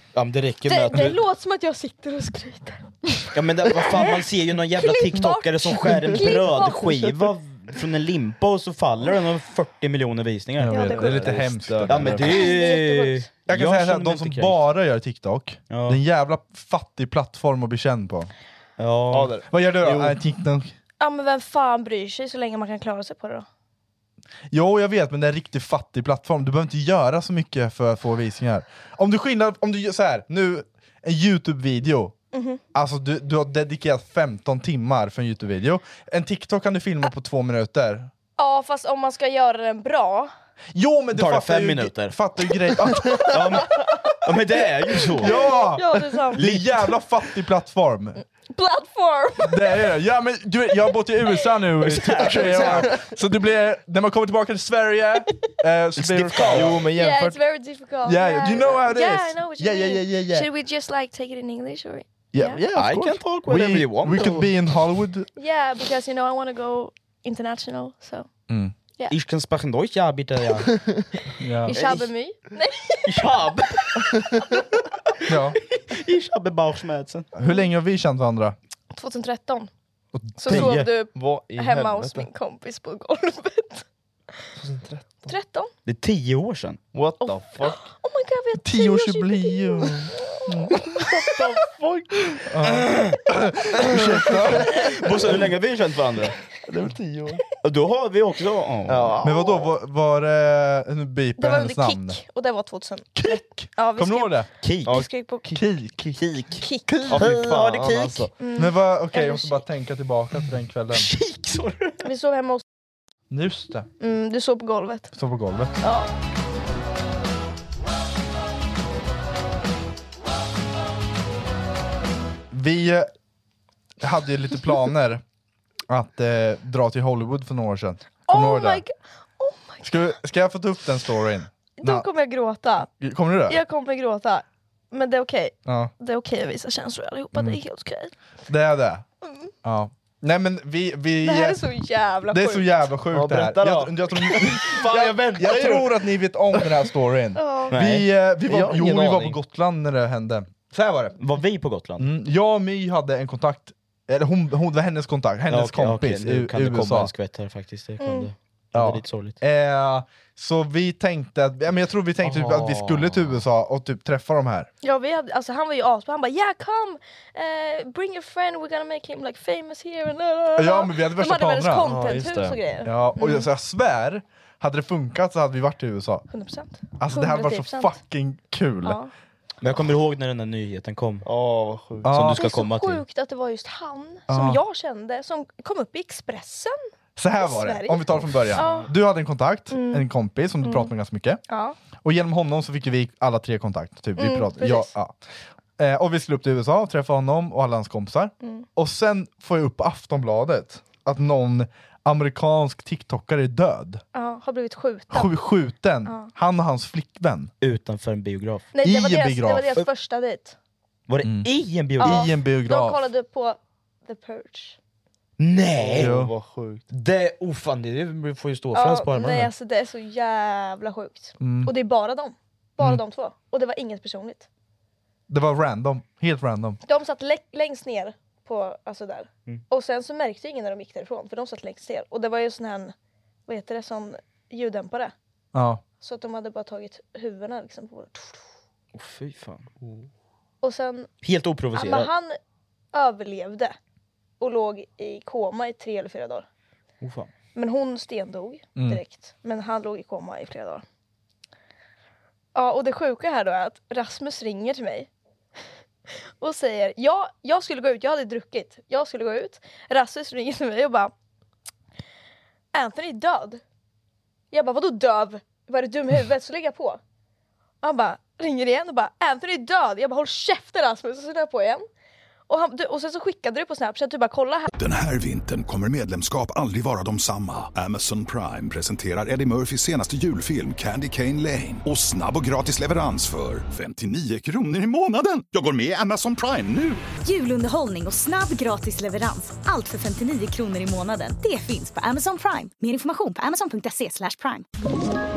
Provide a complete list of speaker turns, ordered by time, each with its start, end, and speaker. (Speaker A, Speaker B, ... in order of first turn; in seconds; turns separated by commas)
Speaker A: 0.1-1.2, Speaker B: 0.7-3.4, Speaker A: 3.3-11.3, Speaker B: 3.9-4.2, Speaker B: 4.8-6.9, Speaker C: 6.0-7.3, Speaker D: 10.6-12.3, Speaker B: 10.7-11.2, Speaker C: 11.0-12.4, Speaker A: 11.9-14.6, Speaker B: 12.1-13.3, Speaker D: 13.5-18.3, Speaker A: 15.7-16.0, Speaker A: 18.8-19.3, Speaker C: 19.1-20.2, Speaker D: 19.5-20.7, Speaker B: 21.0-23.5, Speaker D: 24.5-32.1, Speaker B: 32.3-32.6, Speaker D: 32.7-38.1, Speaker B: 38.4-40.3, Speaker D: 40.7-43.9, Speaker A: 41.1-42.2, Speaker A: 43.3-45.5, Speaker D: 45.1-48.2, Speaker B: 45.2-46.5, Speaker A: 46.4-46.9, Speaker B: 48.5-49.9, Speaker D: 49.4-56.8, Speaker A: 51.8-52.9, Speaker C: 52.1-53.1, Speaker C: 56.0-57.4, Speaker A: 56.1-56.8, Speaker B: 56.9-62.6, Speaker D: 58.0-60.5, Speaker D: 62.3-65.3, Speaker A: 62.7-64.5, Speaker B: 65.4-68.3, Speaker D: 68.5-68.8, Speaker A: 69.1-70.8, Speaker D: 71.4-71.8, Speaker B: 71.7-73.1, Speaker A: 71.7-72.1, Speaker A: 73.0-74.3, Speaker D: 75.3-75.6, Speaker A: 75.3-77.3, Speaker D: 77.3-78.6, Speaker B: 78.9-79.7, Speaker D: 80.2-80.5, Speaker B: 80.4-83.8, Speaker A: 80.5-80.9, Speaker C: 80.5-82.3, Speaker C: 84.6-85.3, Speaker B: 85.3-85.7, Speaker A: 85.9-86.8, Speaker C: 86.9-87.8, Speaker B: 87.2-90.0, Speaker D: 88.6-90.8, Speaker C: 90.9-92.4, Speaker D: 92.5-94.8, Speaker A: 92.6-93.2, Speaker C: 93.8-95.1, Speaker A: 93.8-96.4, Speaker C: 96.7-97.4, Speaker A: 97.6-99.2, Speaker C: 98.9-99.6, Speaker D: 99.2-102.2, Speaker B: 101.4-105.5, Speaker D: 103.2-104.5, Speaker A: 104.6-105.0, Speaker C: 104.9-106.2, Speaker D: 105.5-106.2, Speaker A: 106.2-106.5, Speaker B: 106.6-107.3, Speaker C: 106.9-108.3, Speaker A: 107.1-108.3, Speaker B: 108.4-109.6, Speaker D: 108.6-111.1, Speaker A: 110.9-112.0, Speaker B: 112.0-112.6, Speaker D: 113.3-113.9, Speaker B: 114.0-115.1, Speaker D: 115.1-115.7, Speaker B: 115.8-116.1, Speaker D: 122.5-123.1, Speaker D: 124.0-125.2, Speaker D: 125.9-128.8, Speaker B: 128.3-129.8, Speaker D: 129.8-132.1, Speaker B: 131.8-132.9, Speaker D: 132.9-133.6, Speaker B: 133.5-138.1, Speaker D: 135.7-135.9, Speaker D: 137.3-137.6, Speaker D: 138.5-139.0, Speaker D: 139.6-141.6, Speaker B: 141.2-142.9, Speaker D: 142.3-151.2, Speaker C: 143.1-146.1, Speaker B: 147.3-147.8, Speaker A: 147.7-148.1, Speaker C: 148.4-149.4, Speaker A: 151.2-152.1, Speaker D: 152.0-157.1, Speaker A: 155.5-159.4, Speaker B: 158.0-158.3, Speaker D: 158.7-164.7, Speaker C: 162.2-163.1, Speaker B: 164.8-173.5, Speaker D: 170.6-172.1, Speaker C: 171.8-172.6, Speaker D: 172.8-176.3, Speaker B: 176.3-178.0, Speaker D: 177.0-179.0, Speaker B: 178.8-179.1, Speaker A: 179.6-181.3, Speaker C: 181.2-182.2, Speaker D: 182.0-182.5, Speaker A: 182.1-183.0, Speaker B: 182.3-186.8, Speaker D: 184.3-184.6, Speaker D: 187.2-191.4, Speaker B: 187.4-188.9, Speaker B: 189.7-190.1, Speaker B: 190.6-190.9, Speaker B: 191.5-191.8, Speaker D: 192.0-195.2, Speaker B: 194.2-194.9, Speaker D: 195.8-204.0, Speaker B: 204.1-205.3, Speaker D: 205.1-207.5, Speaker A: 207.6-208.7, Speaker B: 208.7-210.6, Speaker D: 208.8-209.8, Speaker A: 211.1-212.3, Speaker D: 211.2-211.5, Speaker B: 212.0-214.8, Speaker D: 212.0-213.0, Speaker A: 215.4-216.2, Speaker C: 215.8-216.8, Speaker D: 216.0-216.3, Speaker A: 216.9-219.5, Speaker B: 218.7-224.5, Speaker D: 221.4-221.7, Speaker D: 225.3-226.8, Speaker B: 226.8-232.9, Speaker B: 233.5-235.1, Speaker D: 235.5-235.8, Speaker B: 236.0-238.4, Speaker A: 238.9-239.7, Speaker B: 240.6-241.1, Speaker A: 241.2-242.1, Speaker B: 241.7-242.4, Speaker B: 242.9-243.8, Speaker B: 244.4-246.5, Speaker A: 247.0-247.3, Speaker B: 247.6-250.8, Speaker D: 248.8-249.0, Speaker B: 252.6-255.1, Speaker B: 256.4-261.1, Speaker B: 262.7-263.6, Speaker B: 264.5-267.0, Speaker B: 267.8-271.9, Speaker B: 272.5-274.7, Speaker E: 274.7-287.0, Speaker F: 287.2-294.7